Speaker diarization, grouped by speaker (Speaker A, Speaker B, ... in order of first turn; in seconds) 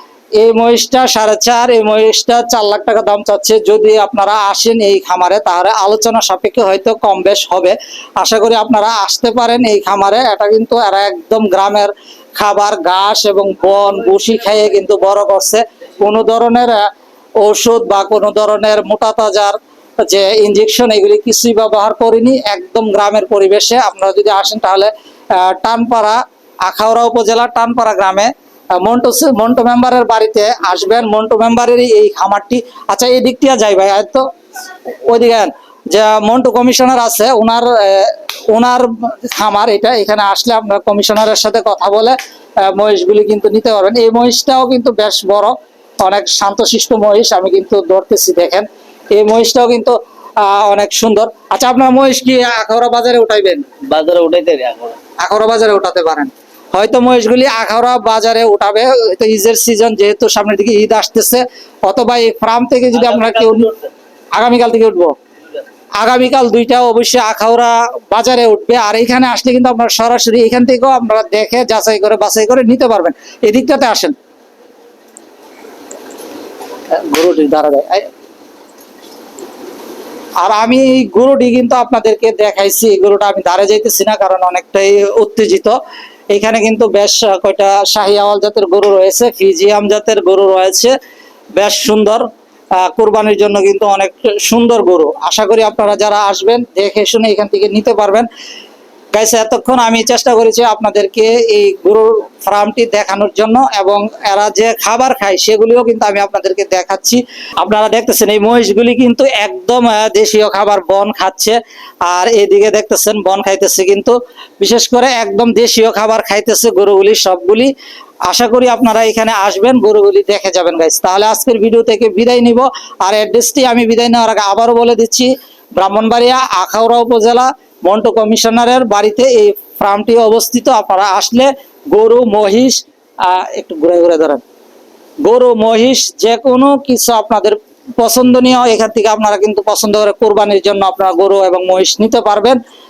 Speaker A: 0.4-16.9, 17.4-34.3, 35.1-53.7, 55.2-63.7, 64.3-65.1, 66.0-74.1, 76.9-78.1, 80.4-85.8, 86.3-90.9, 91.6-92.2, 92.8-98.3, 99.1-117.7, 118.3-134.4, 135.2-142.6
Speaker B: 13.6-14.7, 53.8-55.0, 62.9-63.9